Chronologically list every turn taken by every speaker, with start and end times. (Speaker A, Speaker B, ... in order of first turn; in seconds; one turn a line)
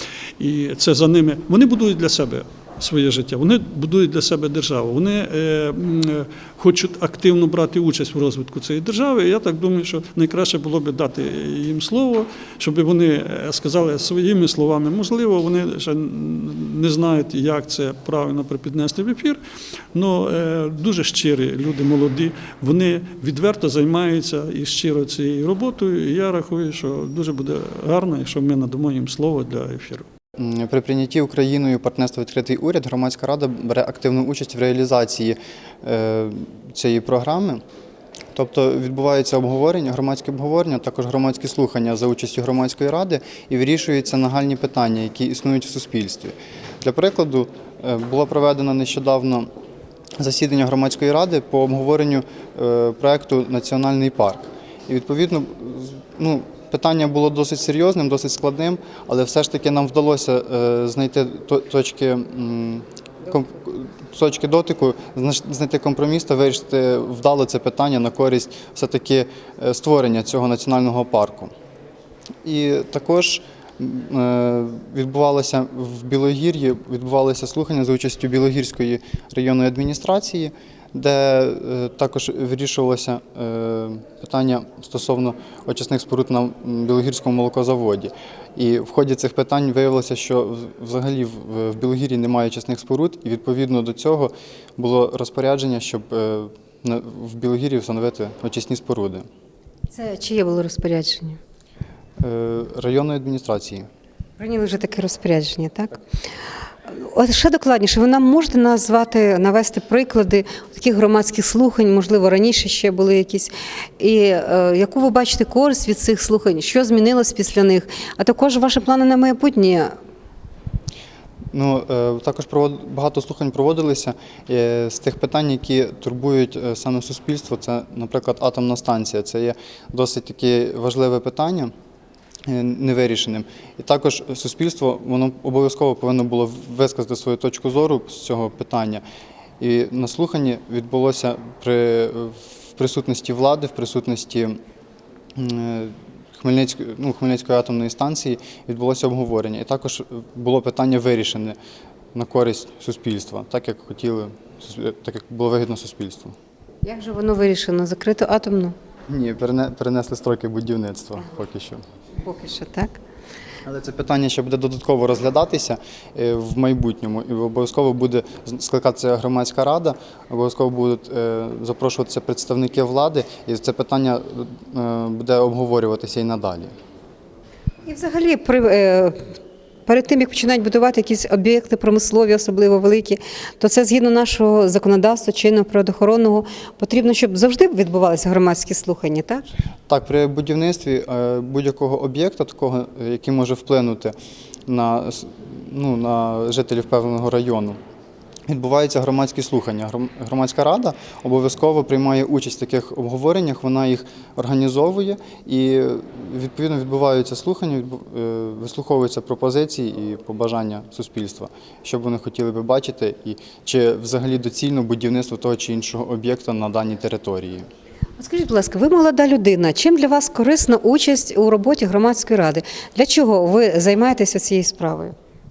Speaker A: 0.4-19.4
Speaker A: 19.9-30.1
Speaker B: 30.4-37.6
Speaker B: 38.3-49.5
Speaker B: 50.2-71.5
Speaker B: 72.4-99.2
Speaker C: 99.9-101.4
Speaker B: 102.2-103.8
Speaker C: 104.4-106.0
Speaker C: 106.9-119.9
Speaker B: 121.5-131.7
Speaker B: 132.5-139.0
Speaker B: 139.6-144.6
Speaker B: 145.3-151.6
Speaker B: 152.1-156.3
Speaker C: 156.8-158.7
Speaker B: 159.1-161.8
Speaker C: 162.2-163.0
Speaker B: 163.6-176.7
Speaker C: 177.8-179.3
Speaker C: 179.8-189.5
Speaker B: 189.9-194.2
Speaker B: 194.7-197.8
Speaker B: 198.5-217.6
Speaker C: 218.2-225.1